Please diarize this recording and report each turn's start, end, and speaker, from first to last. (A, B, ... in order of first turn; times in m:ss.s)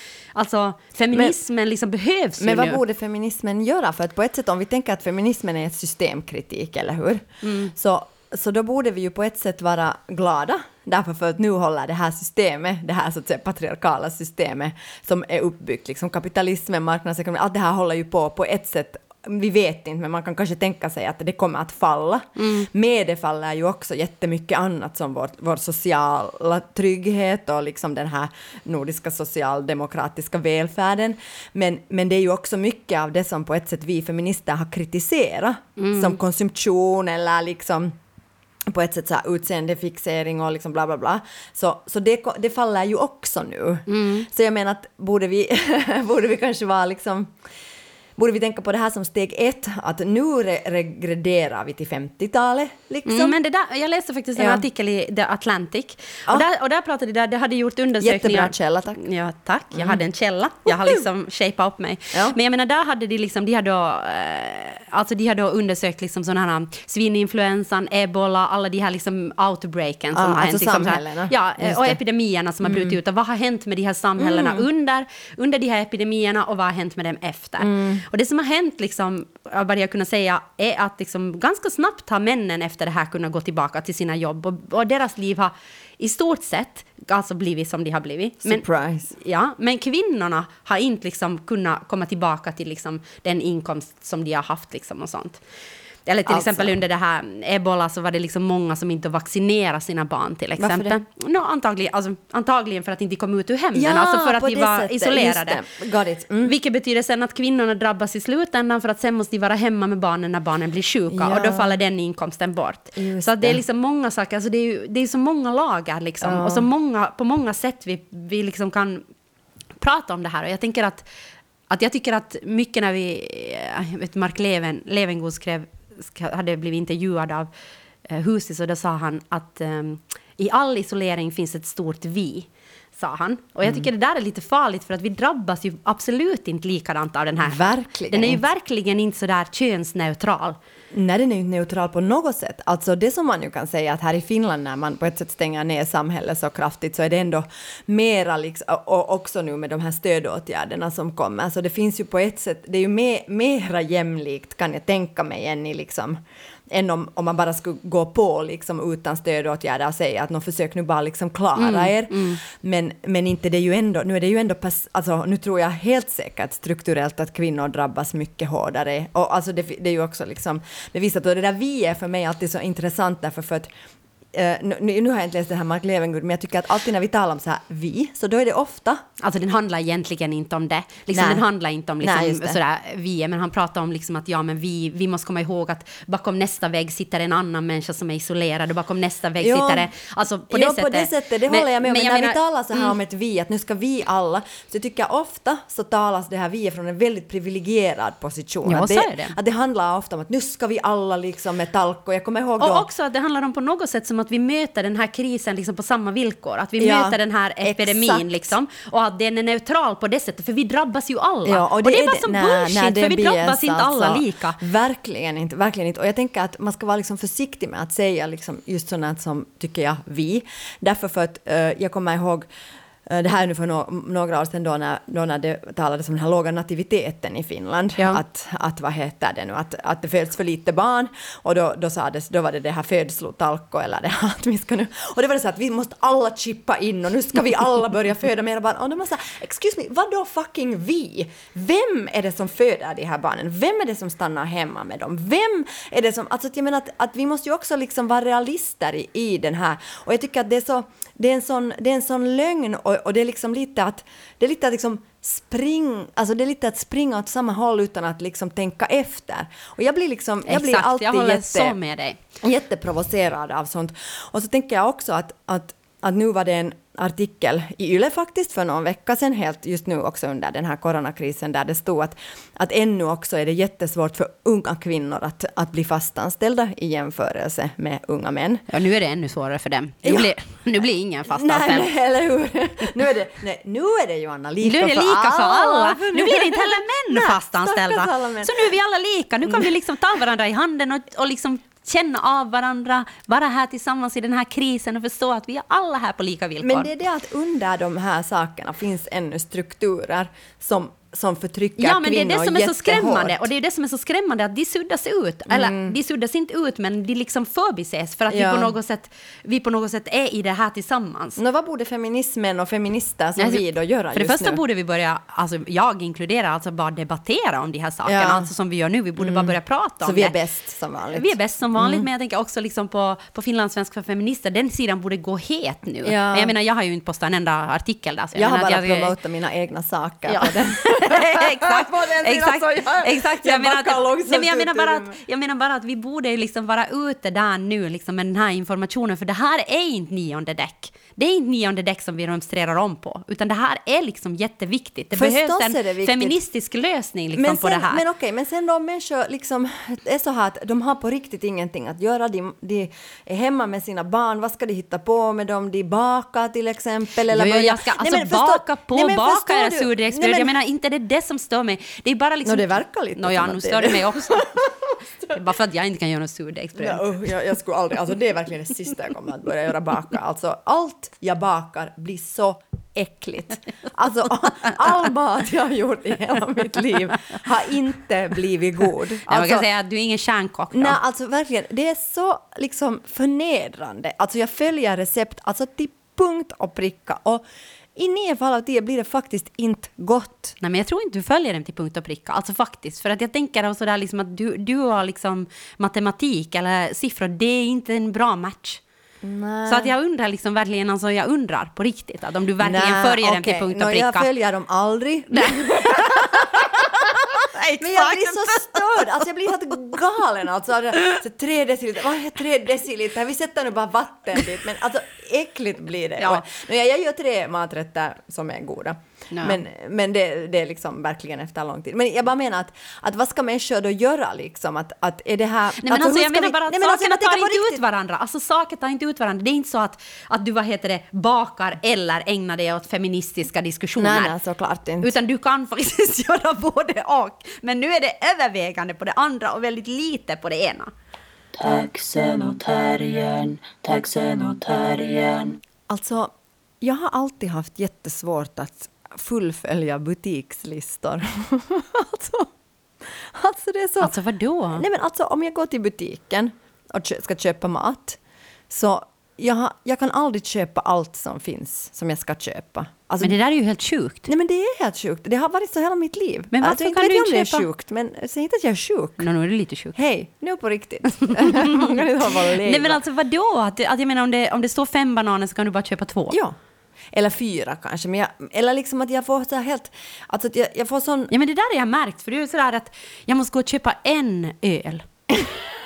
0:00.3-0:02.8 A
0:02.4-0:37.9 B
0:07.4-0:07.7 A
0:22.4-0:22.7 A
0:35.8-0:36.2 A
0:38.7-0:47.4 B
0:43.9-0:44.2 A
0:48.2-0:53.4 B
0:53.0-1:35.4 A
0:54.4-0:54.6 B
0:58.0-0:59.0 B
0:59.7-1:00.0 B
1:00.7-1:01.0 B
1:02.1-1:02.4 B
1:10.1-1:12.0 B
1:12.6-1:12.9 B
1:14.2-1:14.6 B
1:17.6-1:18.0 B
1:28.4-1:29.1 B
1:36.0-1:45.6 A
1:36.3-1:36.8 B
1:40.6-1:40.9 B
1:43.7-1:46.5 B
1:46.4-1:59.0 A
1:51.1-1:51.8 B
1:53.0-1:53.6 B
1:56.2-1:56.7 B
1:59.8-2:01.0 A
2:01.7-2:07.5 A
2:08.1-2:20.6 A
2:17.4-2:18.4 B
2:20.9-2:53.7 B
2:41.6-2:42.4 A
2:54.3-2:59.0 B
2:59.2-3:13.0 A
3:01.1-3:01.4 B
3:02.0-3:02.6 B
3:09.4-3:09.9 B
3:10.5-3:22.9 B
3:18.6-3:19.4 A
3:22.6-3:34.6 A
3:26.8-3:28.5 B
3:31.4-3:42.5 B
3:43.0-4:21.7 B
4:20.4-4:22.2 A
4:22.4-4:38.6 B
4:38.7-4:41.9 A
4:40.0-4:40.3 B
4:41.3-4:48.7 B
4:44.6-4:56.9 A
4:49.4-4:49.7 B
4:56.6-5:03.4 B
5:01.8-5:11.4 A
5:05.5-5:06.0 B
5:08.3-5:08.7 B
5:11.4-5:14.6 B
5:13.4-5:20.3 A
5:18.0-5:18.5 B
5:19.2-5:22.1 B
5:21.1-5:29.1 A
5:26.0-5:26.5 B
5:28.4-5:35.2 B
5:30.3-5:48.0 A
5:45.1-5:46.4 B
5:47.3-6:00.5 B
5:57.3-6:04.7 A
6:02.4-6:04.7 B
6:05.2-6:07.0 A
6:06.8-6:19.6 B
6:19.2-6:21.0 A
6:20.7-6:27.4 B
6:28.0-6:30.6 B
6:30.6-6:38.8 A
6:39.2-6:39.9 B
6:39.7-6:44.3 A
6:42.6-6:46.8 B
6:45.3-6:49.1 A
6:47.8-7:07.8 B
6:56.2-6:56.4 A
6:59.3-6:59.6 A
7:05.8-7:14.3 A
7:14.0-7:15.1 B
7:15.0-7:20.9 A
7:21.5-7:25.6 C
7:25.9-7:32.5 B
7:33.0-7:34.2 B
7:34.0-7:34.8 A
7:34.7-7:38.2 B
7:38.7-7:43.4 B
7:43.2-7:44.3 A
7:44.3-7:49.3 B
7:46.5-7:47.7 A
7:49.2-7:50.0 A
7:49.9-7:53.0 B
7:51.2-7:52.0 A
7:52.6-7:56.4 A
7:56.3-7:56.6 B
7:57.1-8:01.3 B
8:01.3-8:05.1 A